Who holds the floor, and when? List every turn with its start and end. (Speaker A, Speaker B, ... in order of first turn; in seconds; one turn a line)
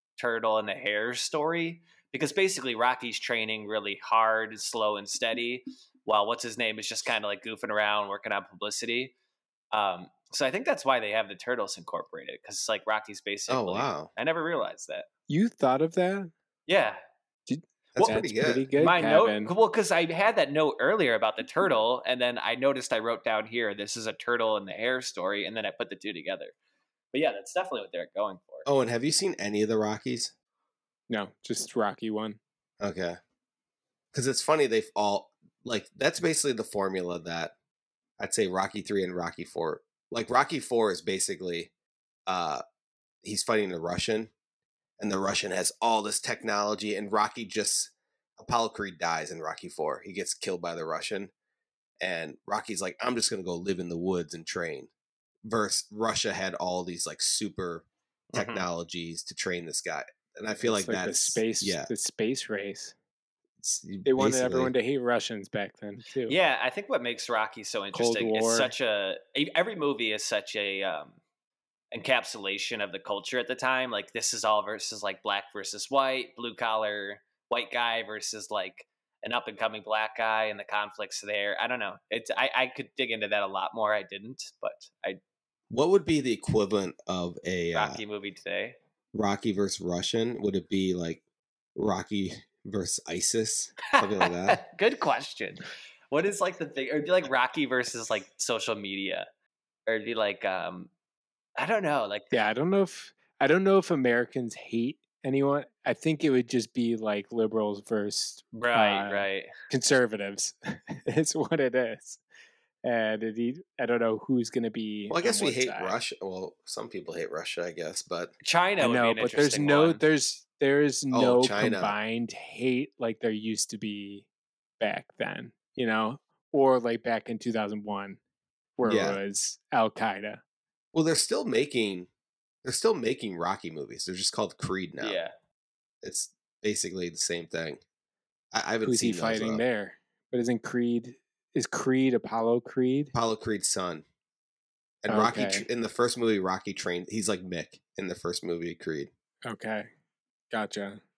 Speaker A: 0.2-9.1
Speaker A: 9.7-15.1
Speaker B: 13.5-14.1
Speaker C: 15.3-16.3
Speaker A: 16.7-17.0
Speaker C: 17.5-19.5
Speaker B: 17.9-18.7
Speaker A: 18.8-26.6
Speaker A: 27.1-28.7
Speaker B: 28.7-30.3
Speaker C: 31.1-32.4
Speaker B: 32.8-33.2
Speaker B: 34.1-37.5
Speaker B: 38.2-41.7
Speaker B: 42.3-42.6
Speaker B: 43.2-44.3
Speaker B: 45.0-51.3
Speaker B: 52.0-54.9
Speaker B: 55.5-61.9
Speaker A: 58.3-58.7
Speaker C: 60.6-63.0
Speaker B: 63.6-64.7
Speaker C: 64.1-66.4
Speaker A: 66.3-71.2
Speaker C: 67.9-68.7
Speaker A: 71.9-85.2
Speaker B: 85.7-88.0
Speaker A: 87.8-88.8
Speaker B: 89.1-91.2
Speaker B: 91.8-94.6
Speaker A: 94.0-99.3
Speaker A: 99.9-100.9
Speaker A: 101.6-102.3
Speaker C: 102.3-112.2
Speaker A: 108.5-109.5
Speaker C: 112.8-116.0
Speaker B: 115.1-118.3
Speaker A: 118.4-120.0
Speaker C: 118.8-124.3
Speaker B: 121.1-122.0
Speaker C: 124.8-128.2
Speaker C: 128.8-130.4
Speaker B: 128.8-129.2
Speaker B: 130.9-132.1
Speaker B: 132.6-135.2
Speaker A: 135.0-135.3
Speaker B: 136.0-137.8
Speaker B: 138.5-139.6
Speaker C: 138.8-143.1
Speaker B: 143.1-144.1
Speaker B: 145.0-149.1
Speaker C: 145.1-145.7
Speaker C: 149.4-149.9
Speaker C: 150.5-151.0